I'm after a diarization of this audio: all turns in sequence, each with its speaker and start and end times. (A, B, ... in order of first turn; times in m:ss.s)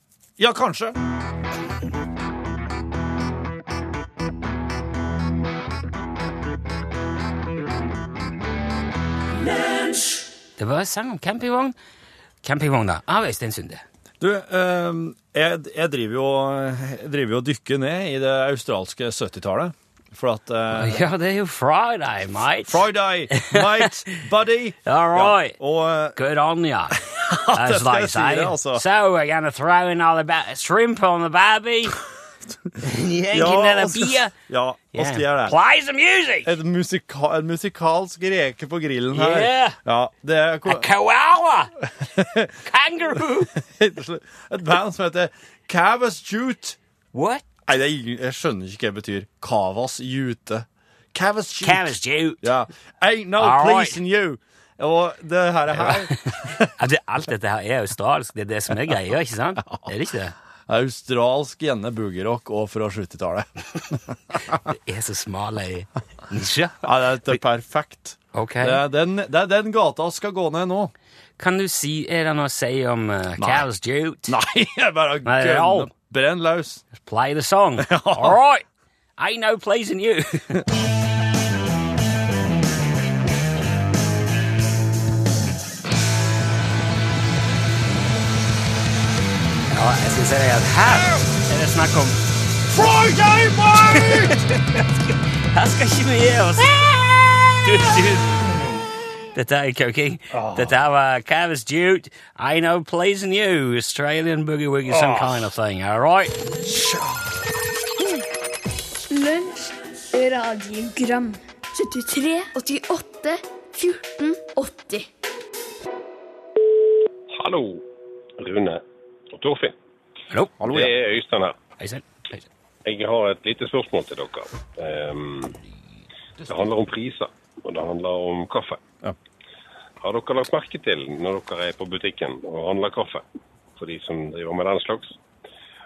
0:00.4-0:01.0 A
0:10.6-0:11.7 B
0:12.4-0:13.8 B
0:14.2-0:21.1 A
0:20.7-0:24.2 B
0:22.6-0:26.2 A
0:24.8-0:25.6 B
0:26.2-0:27.0 B
0:27.0-0:28.8 A
0:27.5-0:32.0 B
0:32.8-0:34.3 B
0:33.3-0:35.6 A
0:34.9-0:36.5 B
0:36.4-0:40.9 A
0:39.1-0:39.8 B
0:40.6-0:41.7 B
0:41.9-0:42.6 A
0:42.6-0:43.5 B
0:43.5-0:46.8 A
0:47.1-0:47.4 B
0:47.7-0:56.7 A
0:51.6-0:52.5 B
0:53.4-0:54.0 B
0:55.8-1:00.3 B
1:00.7-1:04.6 A
1:04.7-1:06.8 B
1:06.8-1:10.9 A
1:08.3-1:08.8 B
1:11.4-1:14.3 B
1:13.4-1:13.7 A
1:14.2-1:16.8 A
1:15.2-1:15.9 B
1:16.9-1:18.6 B
1:17.8-1:18.4 A
1:19.2-1:20.6 B
1:29.7-1:32.2 B
1:30.9-1:31.2 A
1:32.7-1:34.4 A
1:33.9-1:34.8 B
1:35.5-1:37.0 B
1:37.6-1:38.6 B
1:39.3-1:46.4 B
1:40.3-1:40.8 A
1:44.8-1:45.5 A
1:46.6-1:47.4 A
1:49.1-1:55.1 C
1:57.3-1:57.8 D
1:58.4-1:59.8 D
2:00.3-2:00.6 B
2:00.6-2:00.9 A
2:00.6-2:01.6 D
2:01.8-2:02.4 B
2:02.8-2:05.6 D
2:06.4-2:08.8 D
2:10.0-2:13.2 D
2:13.8-2:15.2 D